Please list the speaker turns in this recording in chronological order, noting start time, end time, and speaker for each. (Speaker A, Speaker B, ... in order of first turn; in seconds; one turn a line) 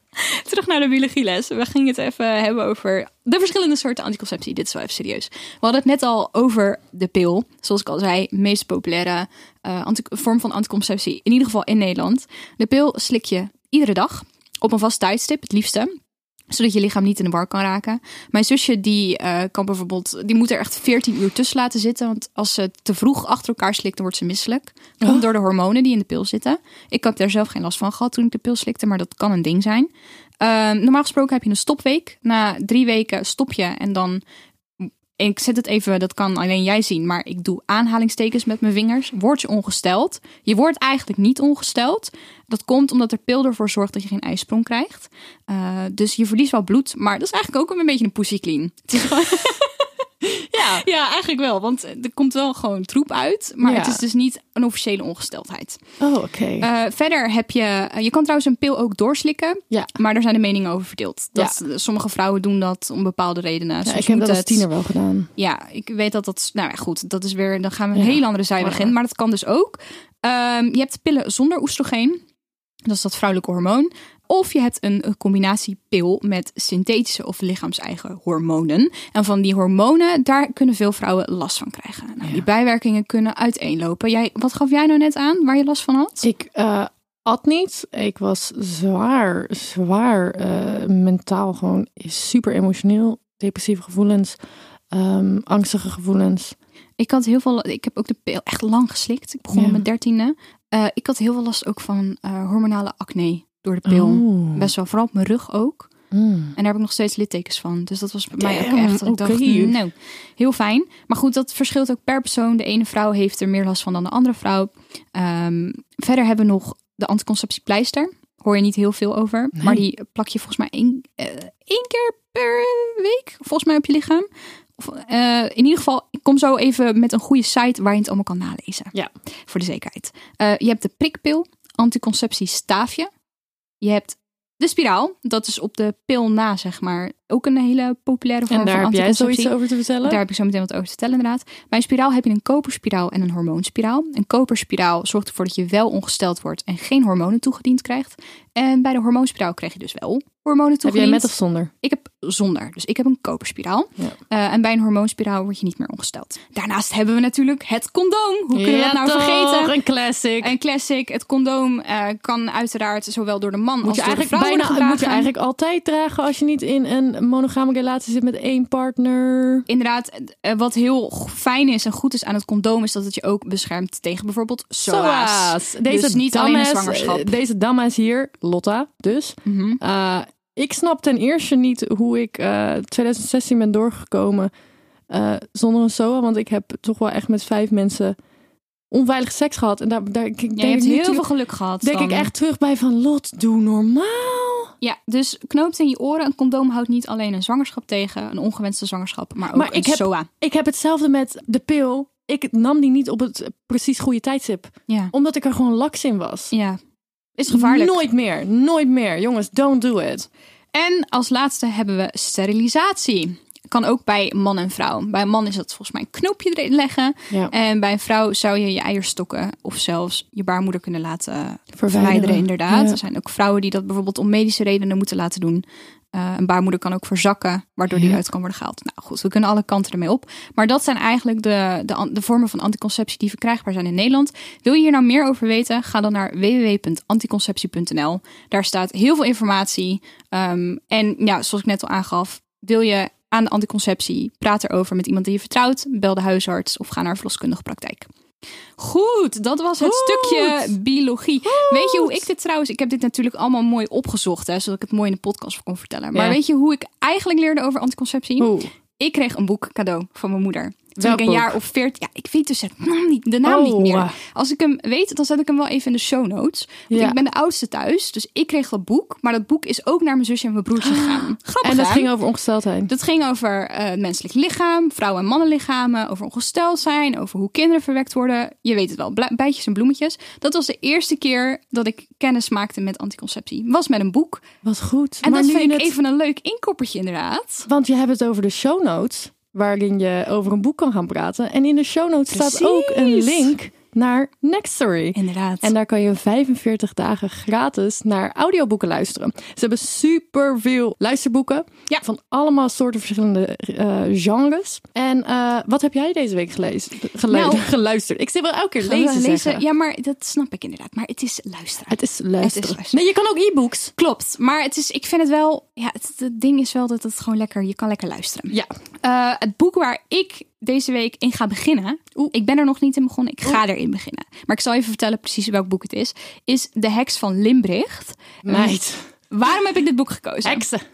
Speaker A: 0.2-15.9
Speaker A: 16.5-29.9
Speaker A: 30.4-34.2
Speaker A: 34.8-49.8
Speaker B: 50.2-50.8
Speaker A: 50.5-55.8
Speaker B: 53.6-54.0
Speaker B: 56.0-56.7
Speaker A: 56.6-64.7
Speaker B: 63.8-65.3
Speaker A: 65.4-72.2
Speaker B: 67.9-68.9
Speaker A: 72.8-86.2
Speaker B: 86.2-94.3
Speaker B: 94.9-96.5
Speaker A: 97.0-105.9
Speaker B: 99.5-99.8
Speaker B: 103.8-104.7
Speaker B: 106.1-106.5
Speaker A: 106.5-124.3
Speaker B: 108.4-109.8
Speaker B: 119.6-119.8
Speaker A: 124.8-128.9
Speaker A: 129.5-133.1
Speaker A: 133.8-151.3
Speaker B: 138.5-140.2
Speaker B: 150.8-151.7
Speaker A: 151.8-159.8
Speaker B: 158.5-160.5
Speaker A: 160.4-165.3
Speaker B: 163.8-169.7
Speaker A: 169.7-177.4
Speaker B: 174.8-184.5
Speaker A: 179.4-179.8
Speaker B: 185.1-188.2
Speaker B: 188.9-191.2
Speaker A: 190.6-192.3
Speaker B: 191.8-194.7
Speaker A: 194.8-200.3
Speaker B: 199.5-206.5
Speaker A: 206.5-206.8
Speaker A: 207.4-208.0
Speaker B: 207.5-210.3
Speaker A: 210.7-248.1
Speaker B: 221.8-223.0
Speaker B: 227.9-228.2
Speaker A: 248.8-272.1
Speaker B: 249.8-250.7
Speaker B: 251.4-252.2
Speaker B: 256.1-256.4
Speaker B: 258.4-258.7
Speaker B: 261.0-261.6
Speaker B: 263.4-264.1
Speaker B: 266.9-267.2
Speaker B: 270.8-272.9
Speaker A: 272.9-284.4
Speaker B: 284.6-285.9
Speaker A: 285.2-287.7
Speaker B: 287.7-309.6
Speaker A: 292.3-293.5
Speaker A: 295.1-295.7
Speaker A: 307.3-307.6
Speaker A: 308.8-313.0
Speaker B: 311.9-313.9
Speaker A: 314.0-328.7
Speaker B: 328.4-329.1
Speaker A: 329.3-330.6
Speaker B: 330.4-330.8